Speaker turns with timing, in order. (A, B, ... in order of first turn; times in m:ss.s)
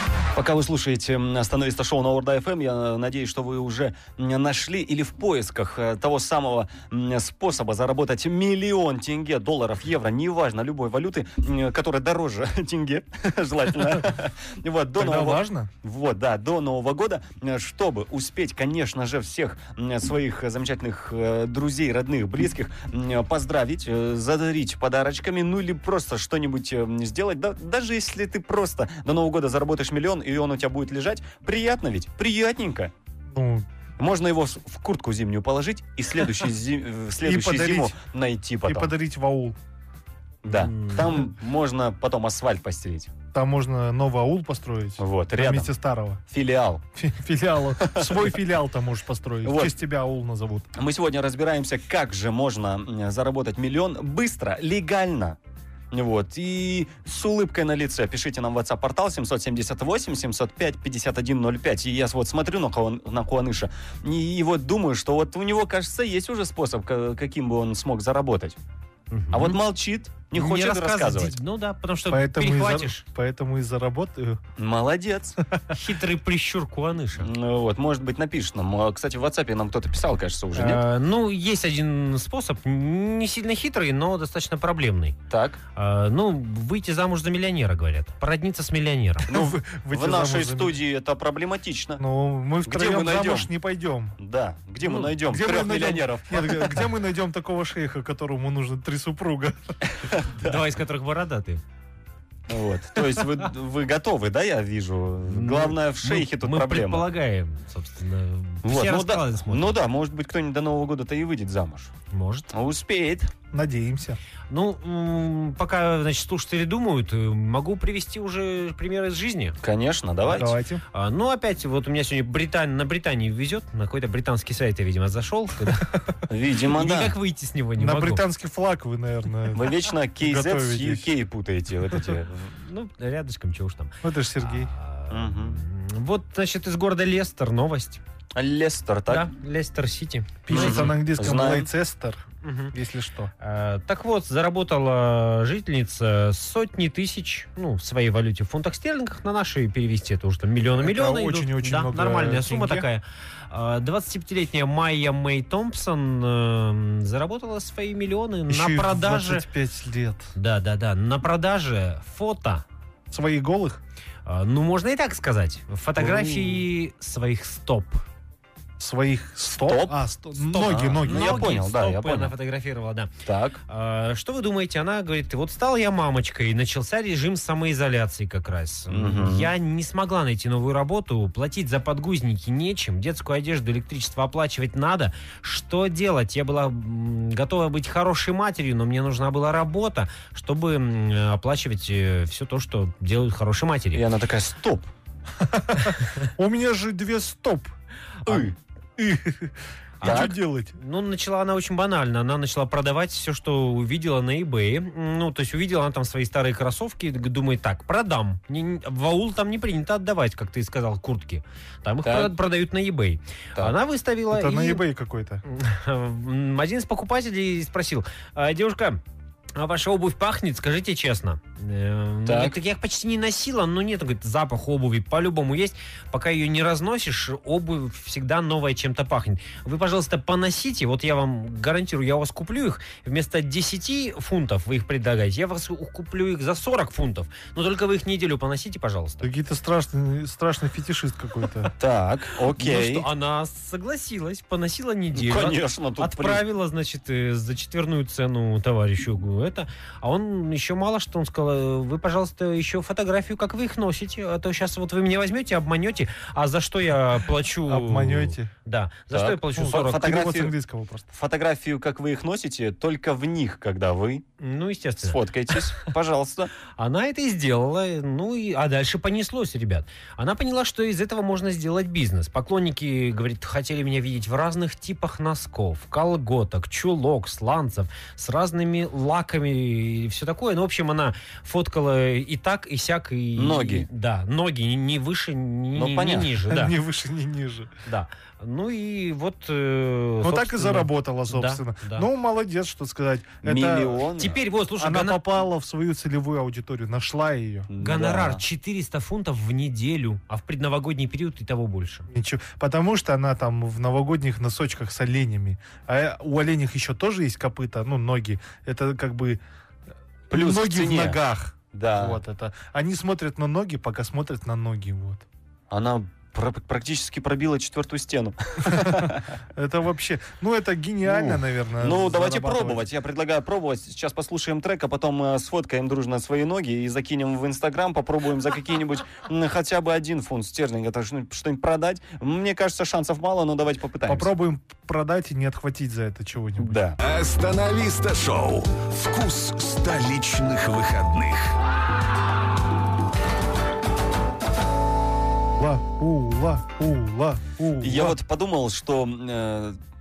0:00.3-0:32.9 A
0:15.0-0:15.7 B
0:33.3-0:33.6 B
0:34.0-0:38.9 A
0:37.2-0:37.9 B
0:38.6-0:39.6 B
0:40.4-0:43.1 A
0:40.5-0:41.2 C
0:43.3-0:46.2 B
0:45.0-0:45.7 A
0:46.3-0:46.8 A
0:47.0-0:50.7 B
0:47.8-0:48.3 A
0:49.4-0:49.8 A
0:50.8-0:55.4 A
0:55.9-1:08.6 A
1:09.1-1:09.6 C
1:09.3-1:11.4 A
1:10.3-1:13.0 C
1:12.1-1:14.4 B
1:14.6-1:15.4 A
1:15.7-1:17.3 C
1:17.2-1:20.8 A
1:20.5-1:25.2 C
1:25.3-1:25.6 A
1:25.8-1:29.3 C
1:29.3-1:30.8 B
1:29.3-1:32.0 A
1:32.0-1:34.1 B
1:32.6-1:33.5 A
1:34.2-1:36.9 A
1:34.8-1:35.1 C
1:35.2-1:39.7 B
1:39.9-1:40.6 A
1:40.4-1:41.6 C
1:42.5-1:47.1 A
1:45.3-1:49.8 C
1:48.6-1:51.9 A
1:52.1-1:52.5 C
1:52.5-1:53.3 A
1:53.5-1:54.2 B
1:54.5-1:59.6 C
1:59.6-2:00.6 A
2:00.3-2:00.8 B
2:00.9-2:05.9 C
2:06.3-2:07.1 A
2:06.7-2:08.2 C
2:07.8-2:11.1 B
2:09.5-2:12.5 A
2:12.6-2:18.0 C
2:14.0-2:14.7 B
2:15.1-2:15.6 A
2:18.4-2:19.3 A
2:19.1-2:20.9 C
2:20.4-2:23.3 B
2:20.5-2:21.7 A
2:22.4-2:22.7 C
2:23.4-2:39.4 C
2:30.8-2:32.9 B
2:38.5-2:40.3 B
2:40.4-2:42.6 C
2:43.1-2:43.8 B
2:44.2-2:48.0 C
2:46.0-2:46.6 A
2:48.8-2:51.6 B
2:49.6-2:50.0 A
2:50.4-2:53.1 C
2:50.5-2:52.3 A
2:53.2-2:53.6 A
2:53.7-3:14.0 C
2:58.9-2:59.5 A
3:13.9-3:14.9 A
3:15.4-3:17.7 B
3:18.2-3:18.6 A
3:19.0-3:20.7 B
3:20.0-3:34.8 C
3:20.0-3:20.4 A
3:32.0-3:32.3 A
3:34.3-3:35.4 B
3:35.4-3:39.0 C
3:39.6-3:59.3 C
3:42.2-3:42.6 A
3:59.2-4:01.7 B
4:01.8-4:03.1 A
4:02.6-4:20.2 C
4:05.1-4:06.4 A
4:17.6-4:18.5 B
4:19.1-4:20.6 A
4:19.6-4:21.1 B
4:21.1-4:24.2 A
4:24.4-4:25.9 C
4:25.0-4:26.6 A
4:26.7-4:46.7 C
4:43.4-4:43.9 A
4:45.7-4:46.3 A
4:46.5-4:47.7 B
4:47.9-4:52.1 C
4:50.2-4:54.1 B
4:53.4-4:54.4 A
4:54.2-4:55.2 C
4:54.8-4:57.7 B
4:57.7-4:58.4 A
4:57.8-5:02.1 C
5:02.1-5:09.4 B
5:10.3-5:15.2 B
5:10.3-5:11.2 A
5:11.7-5:12.2 A
5:15.7-5:19.3 A
5:18.6-5:22.8 B
5:21.0-5:34.3 A
5:34.1-5:36.8 B
5:36.6-5:37.0 A
5:37.0-5:41.6 D
5:45.6-5:48.2 B
5:47.8-5:49.8 A